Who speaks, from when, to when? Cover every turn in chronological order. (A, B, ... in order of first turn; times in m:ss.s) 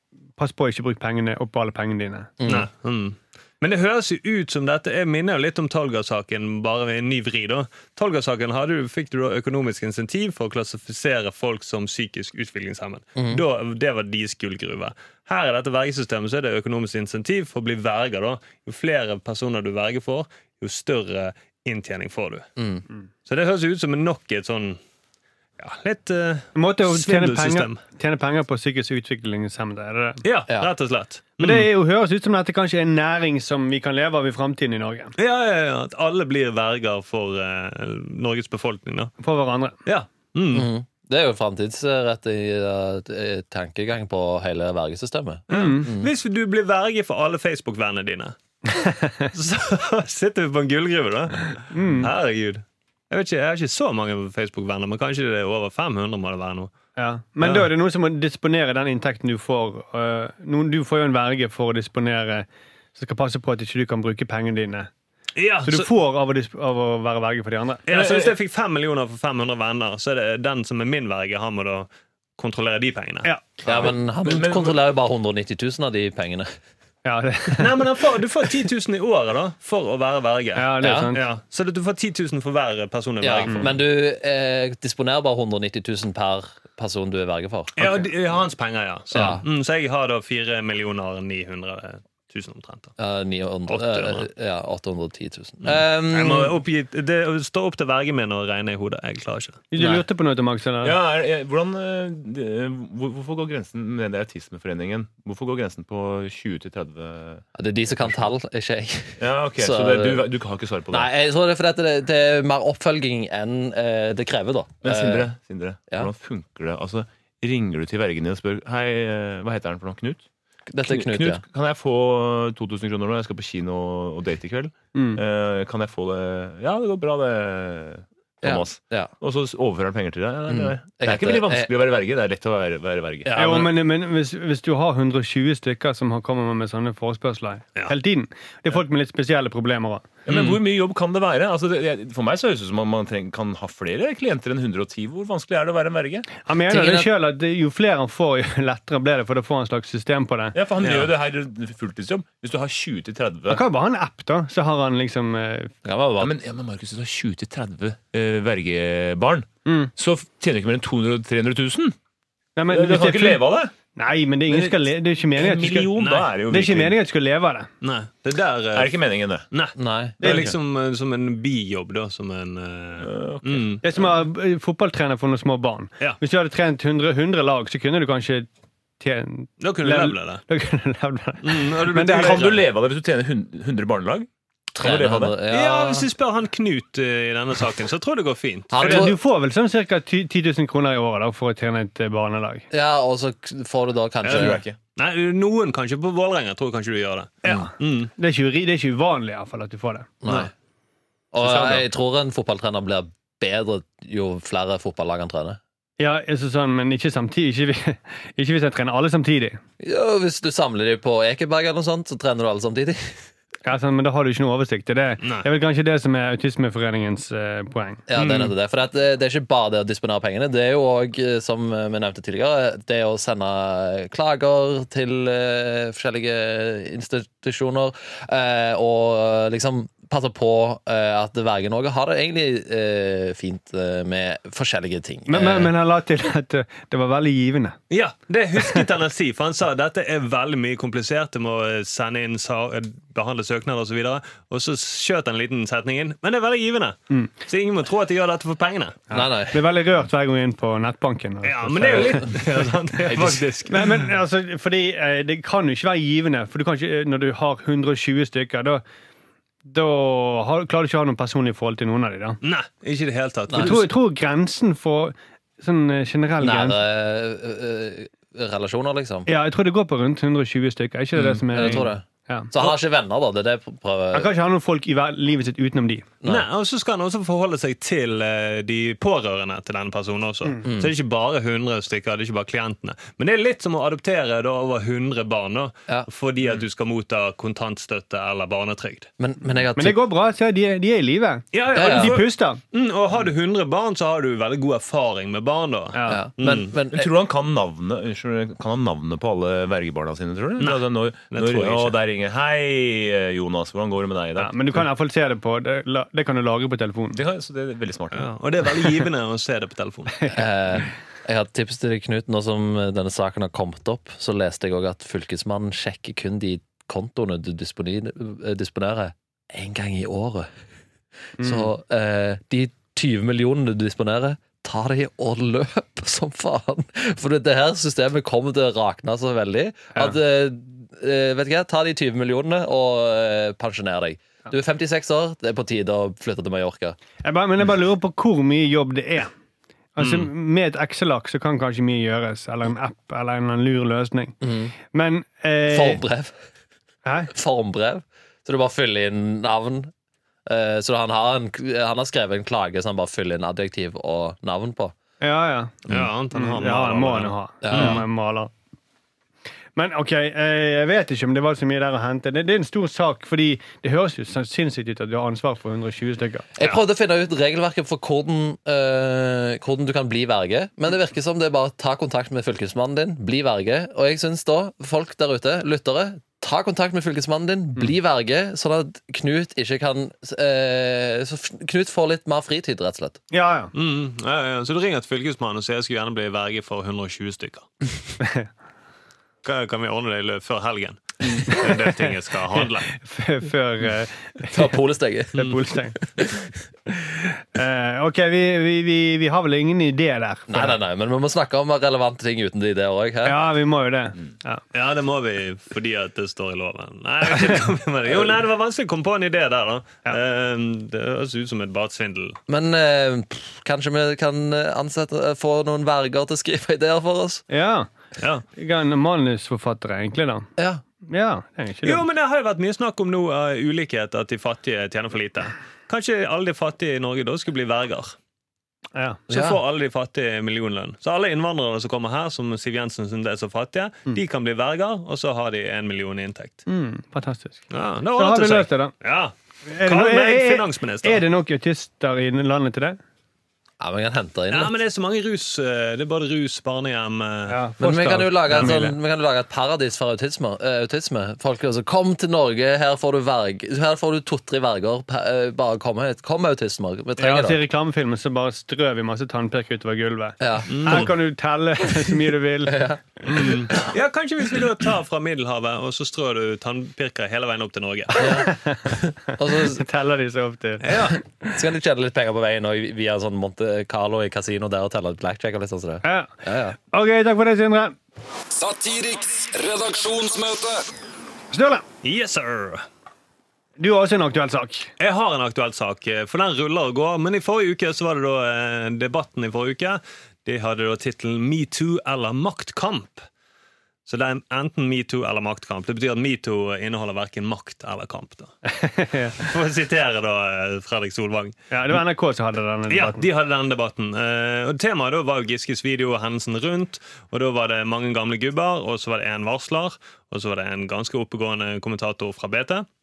0:00.4-0:02.3 A
0:02.4-0:02.7 B
0:02.5-0:22.5 C
0:13.2-0:13.4 B
0:22.6-0:22.8 B
0:23.3-0:24.8 C
0:25.6-0:27.8 C
0:26.6-0:30.2 A
0:30.2-0:31.7 C
0:31.4-0:35.1 A
0:35.2-0:39.1 C
0:39.2-0:39.8 A
0:39.9-0:40.7 C
0:40.5-0:46.1 B
0:45.5-0:48.4 C
0:45.5-0:45.9 A
0:48.8-0:49.3 A
0:49.3-0:56.7 C
0:51.7-0:52.1 A
0:57.0-1:04.9 A
0:57.4-0:57.7 C
1:05.4-1:05.9 C
1:05.6-1:07.9 A
1:07.9-1:13.3 C
1:07.9-1:08.3 D
1:13.6-1:16.5 B
1:13.7-1:14.7 D
1:17.0-1:17.8 A
1:17.6-1:23.8 C
1:20.6-1:21.2 A
1:20.8-1:21.1 B
1:23.2-1:28.1 B
1:27.8-1:32.9 C
1:29.1-1:29.4 B
1:33.0-1:36.6 B
1:33.7-1:34.3 C
1:35.7-1:39.6 C
1:39.7-1:41.0 A
1:39.8-1:40.0 B
1:40.8-1:47.4 D
1:47.6-1:50.3 B
1:49.2-1:51.1 D
1:50.9-1:55.3 B
1:54.8-2:00.2 D
2:00.7-2:01.4 B
2:00.8-2:13.3 D
2:04.9-2:05.2 A
2:08.4-2:09.1 B
2:10.5-2:11.7 B
2:13.2-2:13.8 B
2:13.4-2:20.0 A
2:20.3-2:26.3 D
2:20.3-2:20.6 C
2:26.5-2:30.6 A
2:26.7-2:27.1 B
2:30.5-2:33.6 D
2:30.8-2:31.1 C
2:33.5-2:35.7 A
2:35.8-2:36.3 B
2:36.2-2:42.0 D
2:39.6-2:39.9 A
2:42.6-2:43.4 A
2:42.7-2:43.7 D
2:44.0-2:45.9 A
2:44.5-2:47.0 D
2:46.0-2:46.3 C
2:46.5-2:47.7 A
2:47.8-2:49.0 C
2:48.7-2:49.4 D
2:49.5-2:53.8 C
2:49.8-2:50.2 B
2:50.2-2:50.6 D
2:53.0-2:54.1 D
2:53.8-2:58.5 A
2:59.0-3:02.6 A
2:59.6-3:00.4 C
3:01.4-3:02.6 C
3:02.0-3:05.4 D
3:04.8-3:06.1 B
3:05.5-3:09.1 C
3:08.7-3:09.2 B
3:08.8-3:12.6 A
3:12.7-3:14.6 B
3:14.2-3:18.1 C
3:14.3-3:14.8 D
3:17.4-3:20.1 A
3:20.2-3:20.5 B
3:21.3-3:25.6 B
3:21.4-3:21.8 D
3:26.0-3:29.6 A
3:29.8-3:33.2 B
3:33.6-3:38.0 A
3:38.1-3:55.7 B
3:38.2-3:38.5 C
3:55.3-3:57.8 A
3:57.9-4:09.0 C
4:09.1-4:09.7 B
4:09.1-4:12.4 A
4:11.4-4:14.1 C
4:11.9-4:12.3 B
4:13.1-4:13.4 B
4:13.7-4:18.8 A
4:19.6-4:22.4 A
4:22.4-4:23.9 C
4:23.5-4:23.8 B
4:23.5-4:26.8 A
4:26.4-4:29.3 B
4:29.3-4:32.5 A
4:31.2-4:34.3 B
4:31.6-4:31.8 C
4:34.1-4:36.1 A
4:36.2-4:36.5 B
4:36.3-4:49.1 C
4:40.6-4:40.9 B
4:49.2-4:50.0 B
4:49.8-4:52.6 A
4:51.5-4:56.7 C
4:51.7-4:52.2 B
4:55.9-4:56.2 A
4:56.1-4:57.1 B
4:56.9-5:04.9 D
5:00.6-5:02.0 C
5:04.4-5:07.2 A
5:07.1-5:08.3 D
5:08.1-5:10.3 C
5:10.3-5:20.5 B
5:21.4-5:37.0 B
5:21.4-5:21.7 A
5:37.2-5:39.3 A
5:40.0-5:44.4 A
5:40.0-5:40.3 C
5:44.4-5:44.7 B
5:44.9-5:46.0 A
5:45.7-5:46.3 B
5:47.0-5:47.3 A
5:47.3-5:49.9 B
5:50.5-5:54.9 B
5:55.2-5:58.5 A
5:55.9-5:58.0 C
5:57.6-5:58.0 B
5:59.8-6:06.5 A
6:06.6-6:23.2 B
6:23.3-6:23.7 A
6:23.7-6:27.7 C
6:28.2-6:28.5 A
6:29.4-6:32.9 C
6:31.5-6:31.8 A
6:32.6-6:34.6 A
6:34.4-6:36.5 B
6:35.3-6:36.0 A
6:37.0-6:40.8 A
6:40.5-6:43.4 B
6:43.2-6:44.6 A
6:44.7-6:52.4 C
6:52.5-6:57.4 B
6:57.5-6:57.9 A
6:58.2-6:58.4 C
6:58.6-7:00.5 A
7:00.6-7:00.8 B
7:01.0-7:02.0 A
7:01.8-7:08.2 C
7:09.0-7:09.2 A
7:09.3-7:16.6 C
7:09.3-7:09.6 B
7:16.7-7:18.9 A
7:17.7-7:21.2 C
7:19.7-7:23.0 A
7:23.8-7:24.7 B
7:24.5-7:27.6 C
7:27.5-7:28.9 A
7:27.8-7:37.6 B
7:28.5-7:28.8 C
7:37.2-7:43.5 A
7:40.4-7:41.1 B
7:40.7-7:41.1 C
7:42.7-7:43.8 B
7:43.3-7:48.4 C
7:48.2-7:49.8 B
7:48.2-7:49.0 A
7:49.5-7:51.5 A
7:50.8-7:51.2 C
7:51.5-7:56.8 B
7:56.0-7:56.3 A
7:56.8-7:58.0 A
7:58.5-8:00.8 E
8:01.5-8:01.8 A
8:02.0-8:02.9 C
8:03.8-8:04.9 A
8:05.0-8:13.2 C
8:14.1-8:18.5 C
8:18.7-8:19.4 A
8:19.4-8:21.6 C
8:21.7-8:23.3 A
8:22.9-8:32.9 C